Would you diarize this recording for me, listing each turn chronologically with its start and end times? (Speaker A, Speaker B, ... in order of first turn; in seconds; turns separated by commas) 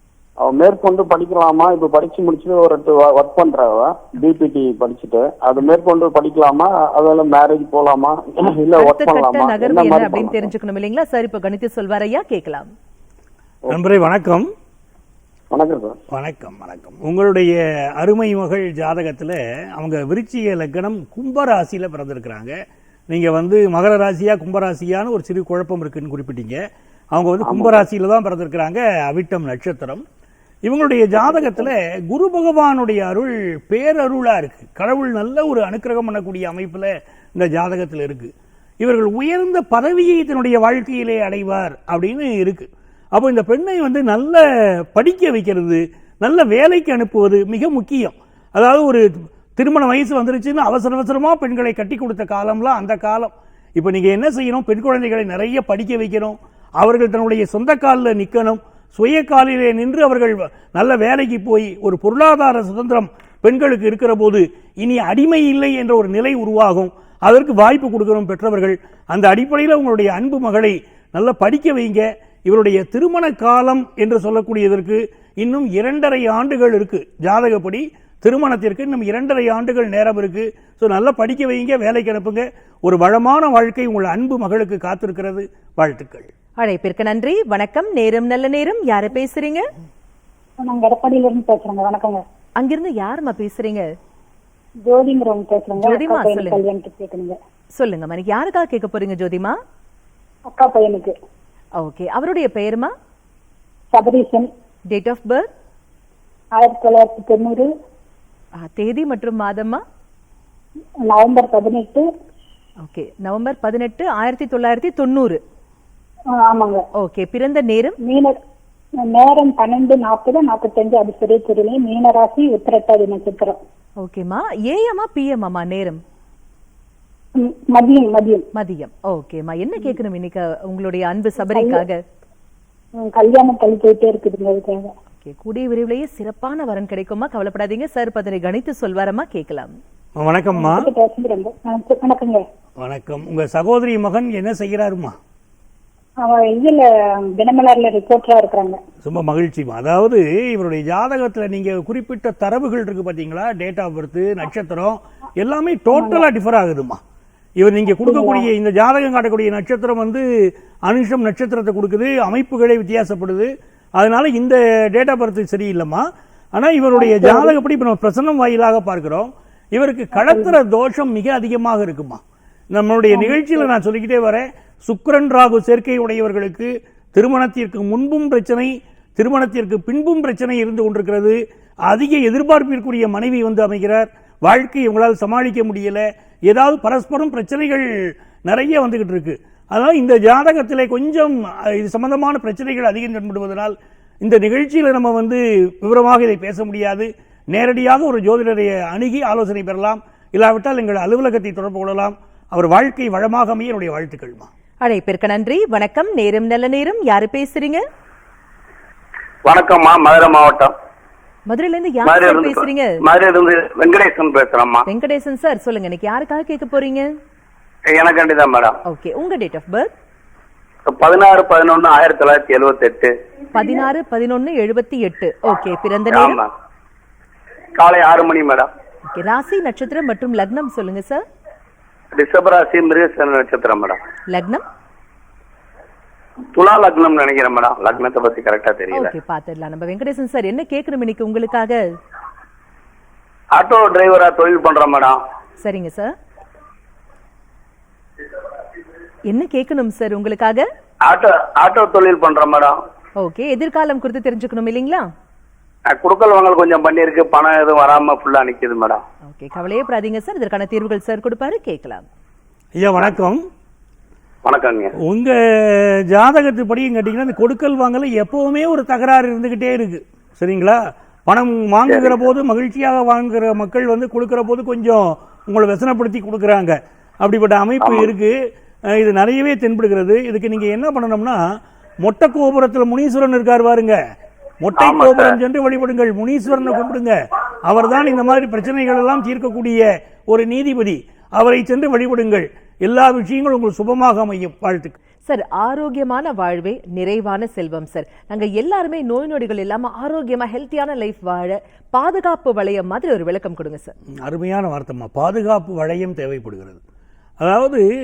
Speaker A: 0.4-10.5, Speaker B: 8.8-12.7, Speaker C: 13.7-14.5, Speaker A: 15.5-16.0, Speaker C: 16.1-22.5, Speaker C: 23.1-26.6, Speaker C: 27.1-30.0, Speaker A: 27.4-27.8, Speaker C: 30.6-44.4, Speaker A: 31.3-31.6, Speaker C: 44.9-86.3, Speaker B: 86.6-89.7, Speaker D: 90.6-92.2, Speaker B: 92.6-93.9, Speaker D: 94.8-97.4, Speaker B: 95.8-96.6, Speaker B: 97.8-99.6, Speaker D: 100.5-101.1, Speaker B: 101.8-102.9, Speaker D: 103.9-104.5, Speaker B: 104.9-105.5, Speaker D: 106.6-107.7, Speaker B: 108.6-109.8, Speaker D: 111.1-112.1, Speaker B: 112.8-115.4, Speaker D: 116.3-116.8, Speaker B: 117.0-118.0, Speaker D: 118.0-118.4, Speaker D: 119.0-123.6, Speaker B: 124.0-126.0, Speaker D: 127.4-128.4, Speaker B: 128.5-132.0, Speaker D: 131.5-131.8, Speaker D: 133.0-134.9, Speaker B: 135.2-139.8, Speaker C: 140.2-140.9, Speaker D: 140.5-142.4, Speaker C: 142.8-145.2, Speaker D: 146.2-148.8, Speaker C: 149.0-157.0, Speaker D: 155.9-156.2, Speaker C: 157.6-172.2, Speaker D: 158.0-158.4, Speaker C: 172.7-187.8, Speaker C: 188.4-204.5, Speaker B: 204.8-207.8, Speaker E: 209.4-210.7, Speaker B: 211.5-213.0, Speaker E: 212.0-214.8, Speaker B: 214.9-217.1, Speaker E: 217.9-218.8, Speaker B: 218.8-219.9, Speaker E: 220.9-223.1, Speaker B: 223.5-226.4, Speaker E: 226.1-226.5, Speaker E: 227.8-228.7, Speaker B: 229.1-231.2, Speaker E: 232.1-234.0, Speaker B: 234.3-234.6, Speaker E: 236.5-239.1, Speaker B: 238.9-241.8, Speaker E: 243.5-245.2, Speaker B: 245.6-246.1, Speaker B: 249.3-250.7, Speaker E: 251.0-252.8, Speaker B: 253.2-255.1, Speaker E: 255.9-259.0, Speaker B: 259.3-262.0, Speaker C: 262.8-263.4, Speaker E: 264.4-264.9, Speaker C: 265.0-278.3, Speaker E: 277.8-278.1, Speaker C: 278.9-281.4, Speaker C: 282.0-284.0, Speaker C: 284.6-294.9, Speaker E: 284.8-285.4, Speaker B: 295.3-303.9, Speaker C: 304.2-306.8, Speaker C: 307.4-307.8